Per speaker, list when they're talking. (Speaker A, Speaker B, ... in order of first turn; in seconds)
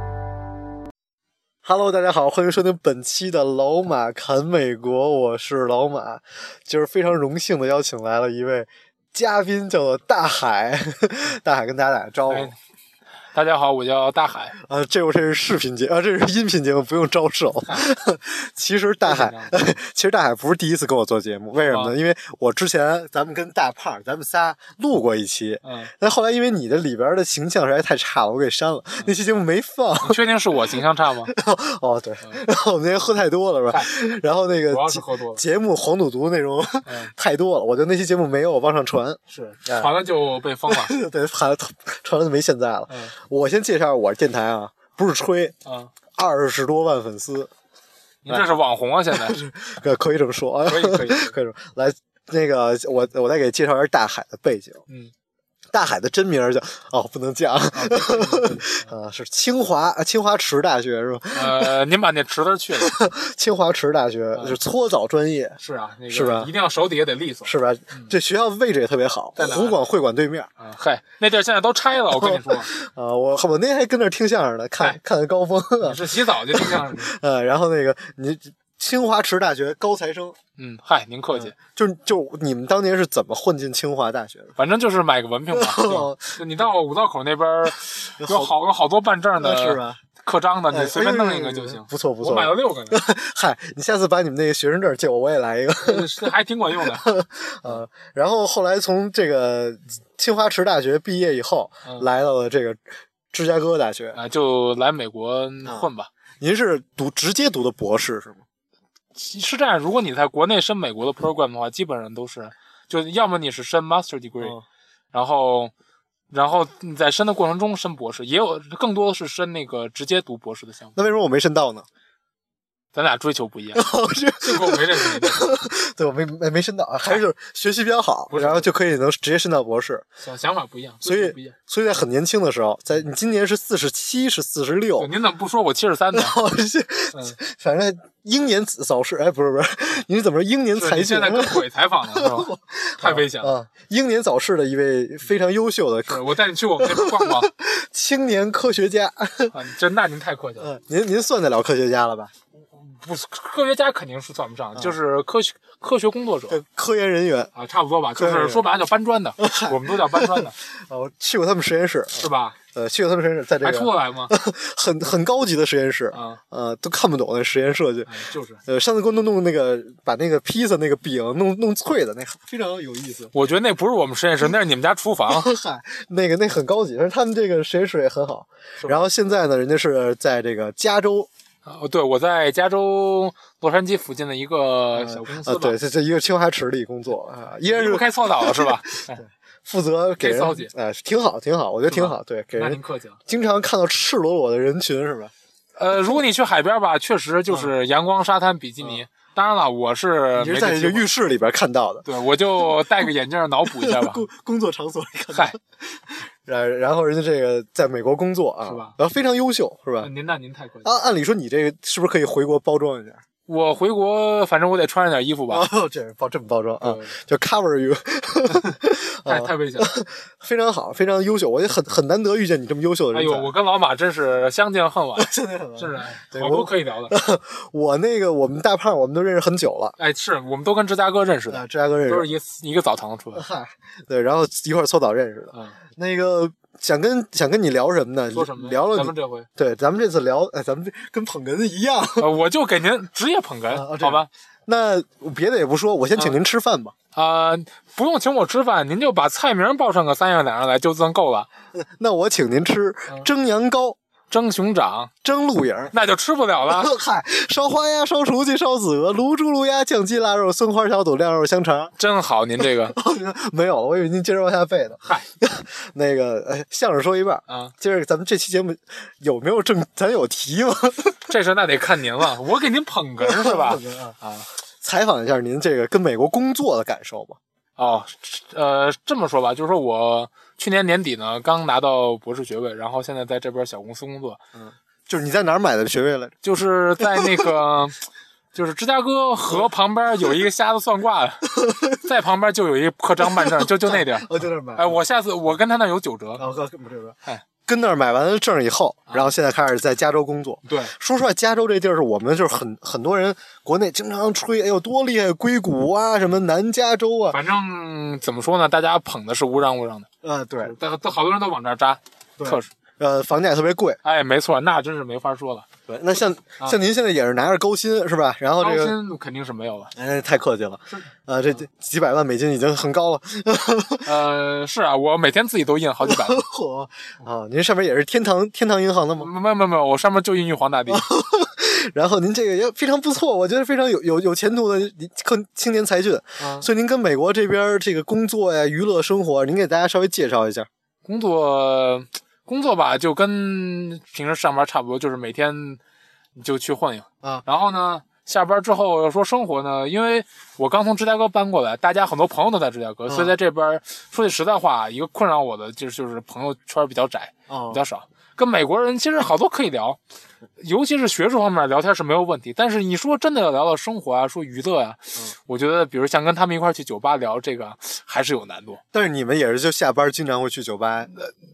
Speaker A: 1.6-12.5, 14.6-30.2, 31.3-39.9, 40.7-45.6, 46.1-47.5, 49.1-54.8, 55.7-61.8, 62.8-65.6, 66.1-66.5, 67.5-70.5, 72.1-80.4, 81.3-84.6, 85.5-86.7, 88.2-88.5, 89.4-90.0, 90.7-104.2, 106.4-108.4, 114.4-114.7, 121.0-121.9, 123.8-130.1, 131.0-135.1, 136.1-149.5, 150.6-152.3, 156.5-157.5, 158.2-158.7, 159.4-168.1, 168.7-173.3, 175.3-181.3, 184.9-195.3, 200.3-202.1, 203.7-210.1, 210.8-213.2, 215.5-223.5, 225.2-229.9, 231.5-232.3, 233.3-242.3, 243.7-246.9, 251.7-254.0, 255.2-255.9, 256.6-261.9, 262.9-271.3, 273.2-274.2, 274.8-277.4, 284.5-286.4, 287.1-287.5, 291.5-292.0, 293.2-295.0, 296.4-307.4, 310.2-310.8, 312.4-314.0, 315.9-318.9, 320.0-324.1, 326.0-329.3, 330.9-340.7, 353.1-353.3, 357.5-357.8, 368.9-371.1
Speaker B: 12.3-12.6, 13.3-14.6, 17.7-17.9, 19.1-19.6, 21.7-21.9, 25.6-25.9, 30.0-31.3, 33.7-34.1, 34.7-35.4, 36.8-37.1, 39.3-41.0, 42.9-43.1, 45.6-45.9, 48.2-49.4, 50.7-51.3, 57.7-58.8, 61.3-63.0, 65.6-68.1, 69.4-69.8, 70.6-72.7, 75.8-77.1, 80.6-81.5, 84.6-93.0, 95.8-97.1, 104.1-106.1, 109.2-114.6, 115.1-115.7, 116.3-121.0, 122.9-123.8, 124.4-125.5, 128.3-128.7, 130.2-131.5, 135.0-136.4, 140.8-143.5, 146.1-147.5, 149.5-150.7, 152.7-156.6, 157.5-160.6, 162.2-162.6, 163.6-164.3, 166.1-166.4, 168.1-168.6, 173.3-175.5, 181.7-185.8, 187.7-189.2, 190.2-190.7, 191.9-193.2, 195.8-201.1, 202.0-204.3, 208.7-208.9, 210.0-210.9, 213.5-215.7, 216.8-217.2, 219.2-219.9, 223.1-227.2, 230.0-233.5, 235.5-235.8, 238.3-239.5, 242.2-244.3, 247.1-251.5, 254.3-255.1, 255.9-256.9, 262.0-263.0, 267.5-267.7, 271.3-274.5, 277.8-284.4, 286.4-296.4, 300.6-300.9, 307.3-310.1, 310.6-312.7, 314.0-315.7, 318.6-319.9, 324.0-326.4, 329.2-331.1, 336.4-336.6, 341.1-345.8, 346.4-360.0, 360.6-368.8